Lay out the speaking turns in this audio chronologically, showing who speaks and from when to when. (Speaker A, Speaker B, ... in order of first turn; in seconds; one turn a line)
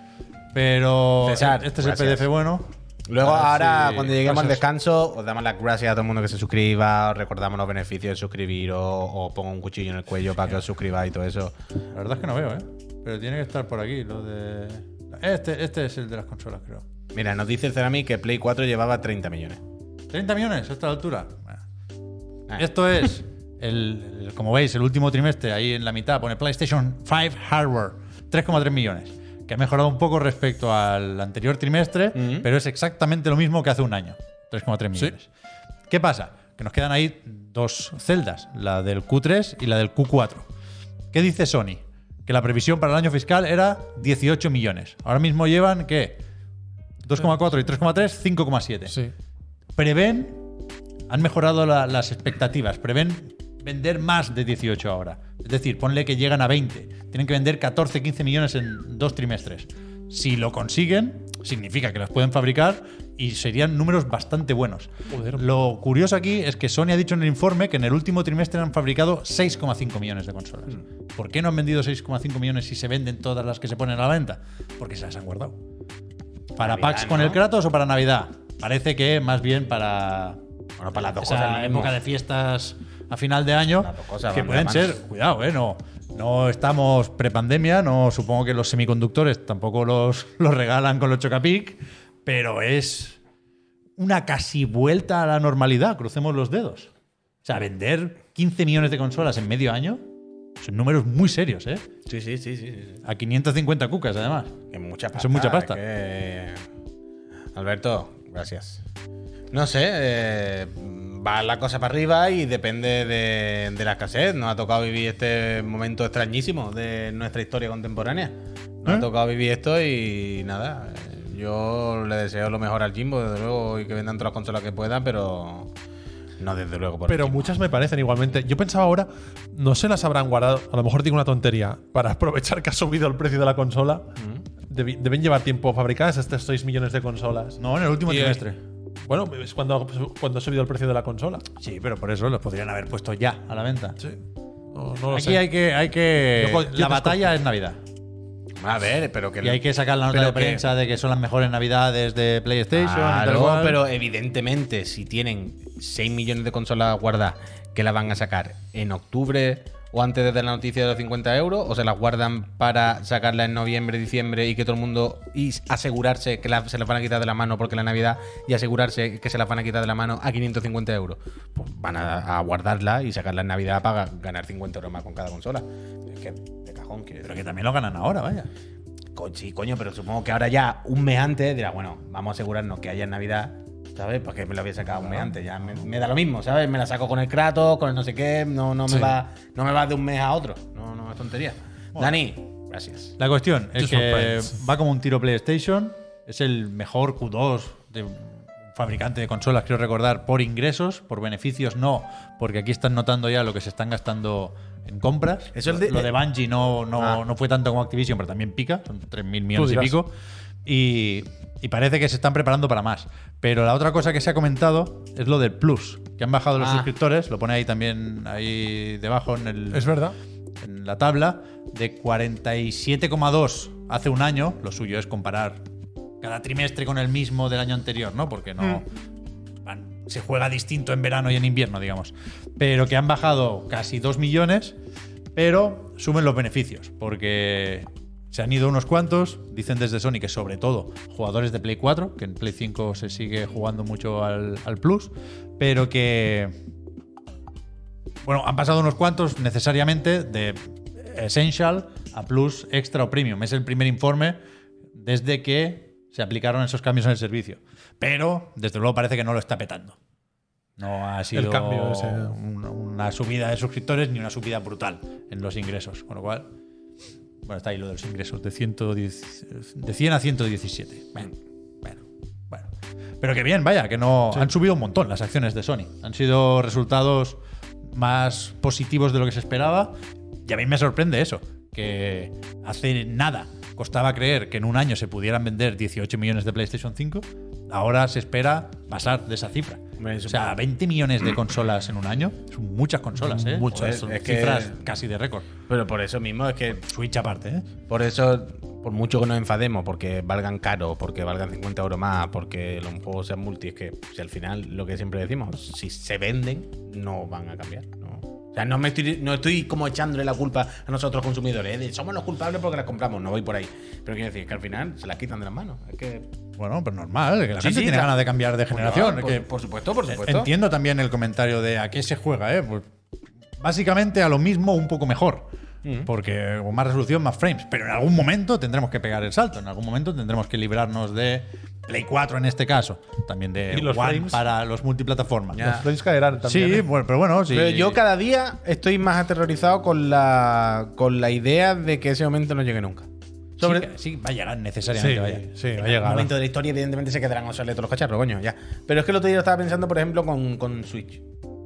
Speaker A: 0.5-4.6
Speaker B: 1.2-2.3
Speaker B: 3.1-11.5
Speaker A: 11.9-16.8
Speaker B: 17.1-19.6
Speaker A: 20.1-21.6
Speaker A: 22.6-35.3
Speaker B: 32.1-32.5
Speaker A: 35.9-40.5
Speaker A: 41.1-46.2
Speaker A: 47.0-49.0
Speaker A: 49.8-50.4
Speaker A: 51.1-75.5
Speaker C: 65.1-65.4
Speaker A: 76.5-80.4
Speaker B: 76.6-77.4
Speaker B: 80.8-81.9
Speaker A: 81.2-93.2
Speaker B: 83.8-85.0
Speaker A: 94.0-96.9
Speaker A: 97.4-100.0
Speaker A: 100.6-101.8
Speaker B: 102.1-103.0
Speaker A: 103.0-104.5
Speaker B: 104.7-106.6
Speaker A: 105.1-105.8
Speaker B: 107.5-108.8
Speaker B: 109.5-125.7
Speaker B: 126.4-127.5
Speaker C: 127.1-134.1
Speaker B: 134.2-134.4
Speaker C: 134.7-138.4
Speaker A: 137.6-138.6
Speaker C: 139.0-141.4
Speaker A: 141.6-144.0
Speaker C: 144.7-145.4
Speaker A: 145.1-147.8
Speaker C: 146.3-147.3
Speaker B: 148.6-150.7
Speaker A: 149.4-153.8
Speaker B: 152.7-177.4
Speaker A: 177.2-178.5
Speaker B: 179.2-193.2
Speaker A: 185.0-185.3
Speaker A: 193.2-210.1
Speaker C: 193.8-194.5
Speaker B: 205.5-206.1
Speaker B: 206.9-207.2
Speaker C: 209.5-209.9
Speaker A: 210.6-219.9
Speaker B: 216.6-216.9
Speaker C: 219.7-220.1
Speaker A: 220.6-225.6
Speaker A: 226.2-228.8
Speaker A: 229.6-234.8
Speaker A: 235.3-246.5
Speaker A: 248.2-254.4
Speaker A: 254.9-260.0
Speaker A: 260.8-266.5
Speaker C: 261.3-262.4
Speaker A: 267.4-277.4
Speaker A: 277.9-295.5
Speaker B: 290.0-290.6
Speaker C: 293.2-294.0
Speaker B: 293.7-294.8
Speaker B: 295.7-296.8
Speaker A: 296.7-297.7
Speaker B: 297.9-316.3
Speaker A: 316.6-319.4
Speaker B: 317.6-320.5
Speaker A: 320.1-322.9
Speaker A: 323.6-325.5
Speaker B: 325.8-326.1
Speaker A: 326.1-335.8
Speaker C: 333.7-334.4
Speaker B: 335.5-335.9
Speaker C: 335.6-336.9
Speaker A: 336.4-338.0
Speaker B: 337.5-343.1
Speaker B: 343.6-343.8
Speaker A: 343.6-345.4
Speaker C: 344.9-346.3
Speaker B: 345.8-351.2